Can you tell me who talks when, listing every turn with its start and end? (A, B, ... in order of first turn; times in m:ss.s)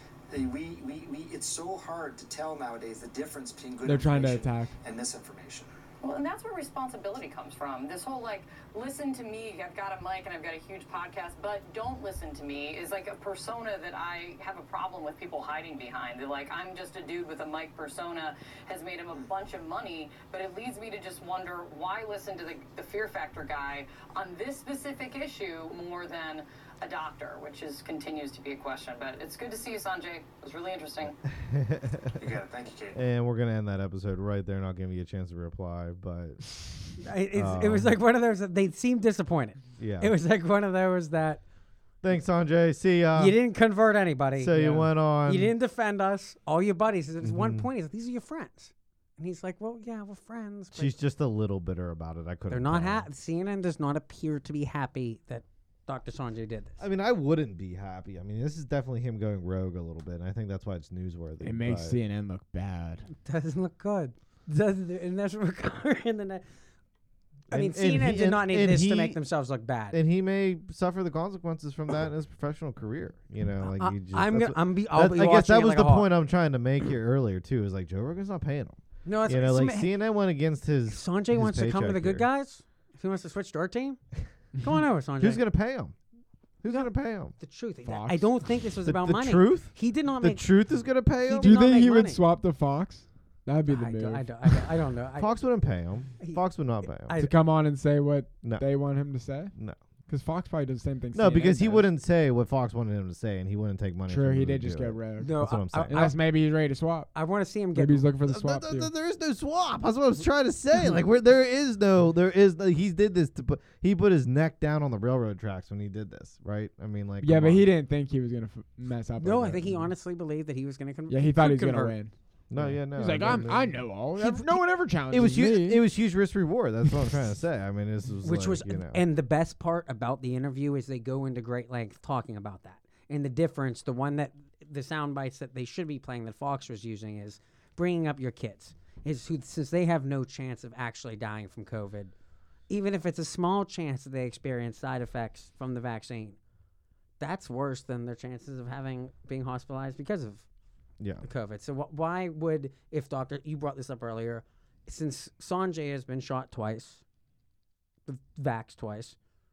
0:00.3-0:05.7 A
0:03.8-0:04.7 B
0:06.0-0:31.2 C
0:31.4-0:32.2 D
0:32.2-0:33.0 A
0:32.9-0:36.7 D
0:37.0-0:41.4 E
0:37.3-0:37.9 D
0:39.8-0:40.1 D
0:42.0-0:43.4 D
0:43.2-0:44.6 E
0:44.4-0:45.5 D
0:44.5-0:44.9 B
0:45.2-0:50.9 E
0:47.2-0:47.7 D
0:50.7-0:53.1 D
0:52.5-0:56.8 E
0:56.8-1:02.0 D
1:01.4-1:03.1 B
1:03.1-1:06.4 E
1:07.5-1:09.2 D
1:07.5-1:10.0 E
1:09.9-1:22.2 D
1:13.6-1:16.1 E
1:19.0-1:19.9 E
1:20.9-1:24.0 E
1:24.6-1:25.4 E
1:25.2-1:26.0 D
1:26.6-1:27.3 D
1:26.7-1:30.4 E
1:27.8-1:28.3 B
1:28.8-1:31.6 D
1:31.2-1:32.2 E
1:31.4-1:34.7 B
1:33.7-1:35.3 E
1:35.2-1:37.1 D
1:36.2-1:37.3 E
1:37.2-1:39.5 B
1:40.1-1:41.9 B
1:41.1-1:46.1 D
1:44.1-1:47.1 B
1:45.2-1:46.2 E
1:47.1-1:48.1 E
1:47.7-1:48.9 B
1:48.2-1:57.7 D
1:57.2-1:59.9 B
1:59.2-2:02.0 E
2:01.1-2:05.8 B
2:02.5-2:03.8 D
2:04.2-2:04.5 E
2:05.1-2:09.0 D
2:08.2-2:22.1 E
2:22.7-2:26.4 E
2:27.2-2:30.4 E
2:31.0-2:31.2 D
2:31.2-2:37.0 E
2:38.1-2:39.2 E